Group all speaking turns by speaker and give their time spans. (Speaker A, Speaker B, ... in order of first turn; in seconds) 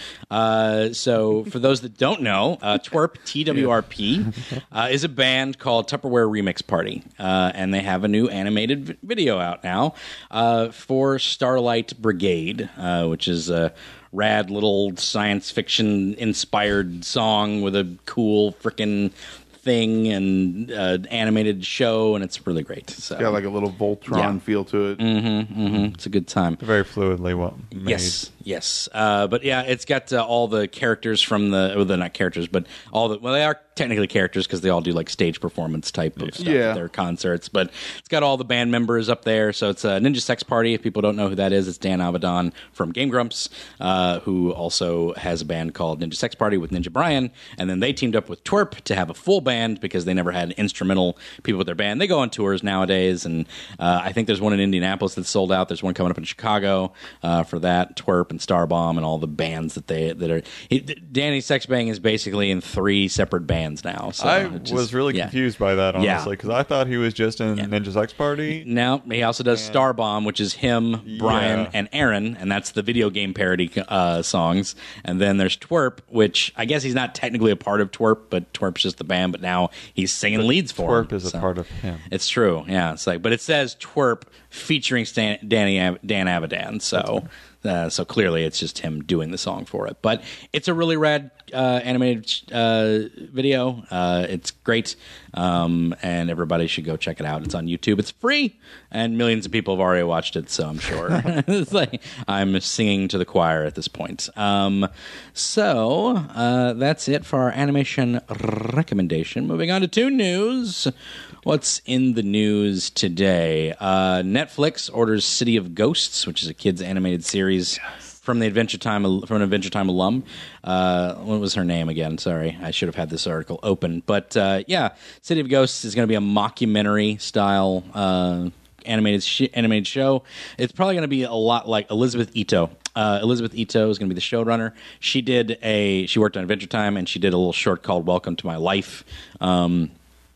Speaker A: 0.3-23.4, 24.1-24.4, 25.0-26.6, 27.8-65.3, 66.0-66.3, 68.6-81.5, 82.1-110.9, 111.4-139.9
Speaker B: 23.2-25.0, 36.4-36.8
Speaker C: 26.6-28.2, 64.2-68.7, 69.5-69.9, 71.1-71.7, 80.4-82.1